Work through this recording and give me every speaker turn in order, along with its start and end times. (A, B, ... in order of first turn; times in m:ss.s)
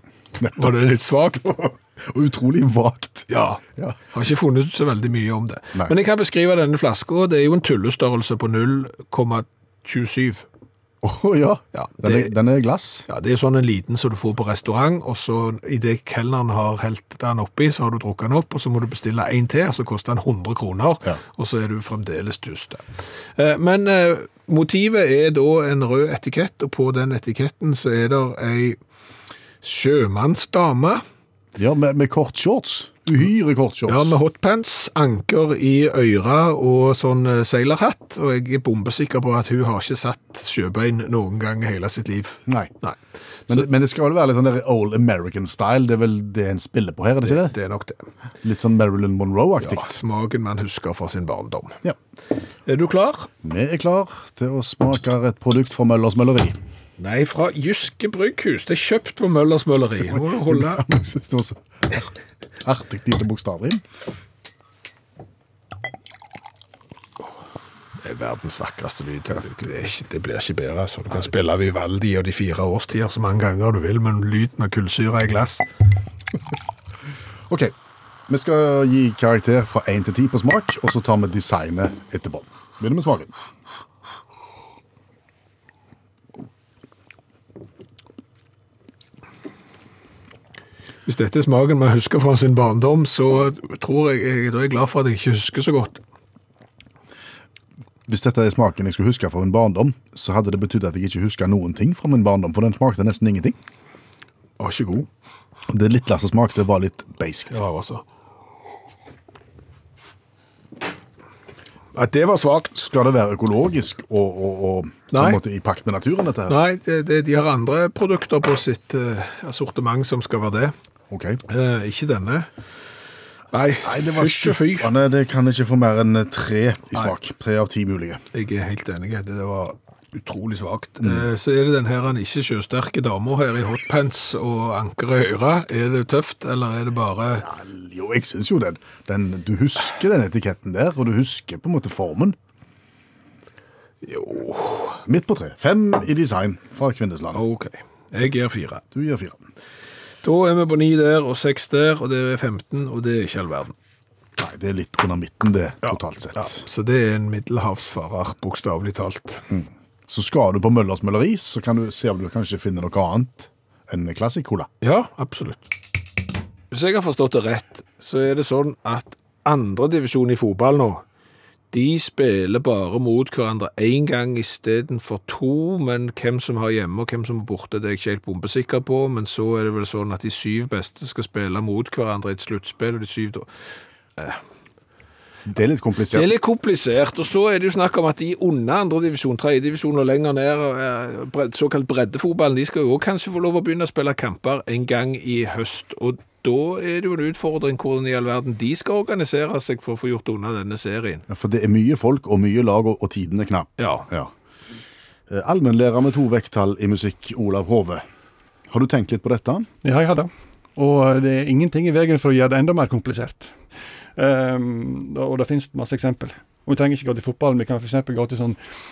0:00.4-0:00.7 A
0:00.5-0:01.5 B
0:01.4-0:04.0 A
0:03.3-0:10.4 B
0:11.0-0:13.0 A
0:11.7-0:12.3 B
0:13.1-0:22.8 B
0:23.4-0:28.8 B
0:29.6-0:31.0 B
0:31.6-0:34.1 A
0:33.9-0:43.0 B
0:43.5-0:47.5 A
0:47.2-0:48.0 B
0:48.4-0:49.9 A
0:49.6-0:51.8 B
0:52.6-0:53.3 B
0:53.4-0:56.6 A
0:57.0-1:00.9 B
1:00.1-1:02.1 A
1:02.6-1:03.8 A
1:08.0-1:15.6 B
1:17.5-1:17.7 A
1:18.3-1:23.3 A
1:31.0-1:36.0 B
1:38.1-1:43.6 A
1:44.6-1:45.1 B
1:45.7-1:47.6 A
1:47.5-1:48.0 B
1:51.9-1:52.7 B
1:52.7-1:56.6 A
1:55.1-1:55.4 B
1:56.5-2:00.7 B
2:01.1-2:01.4 A
2:01.5-2:02.5 B
2:03.5-2:04.9 B
2:03.8-2:08.2 A
2:08.3-2:17.4 B
2:11.0-2:11.2 A
2:17.4-2:22.4 A
2:24.0-2:25.0 B
2:25.0-2:27.4 A
2:27.3-2:28.8 B
2:28.9-2:29.4 A
2:30.2-2:33.7 B
2:34.4-2:36.6 A
2:35.8-2:39.4 B
2:39.5-2:44.7 A
2:44.8-2:45.7 B
2:46.7-2:51.0 B
2:51.7-3:03.5 B
3:05.5-3:06.3 A
3:06.1-3:21.2 B
3:21.3-3:24.3 A
3:23.8-3:24.1 B
3:25.3-3:28.0 A
3:28.7-3:29.7 A
3:29.8-3:33.5 C
3:34.2-3:38.6 C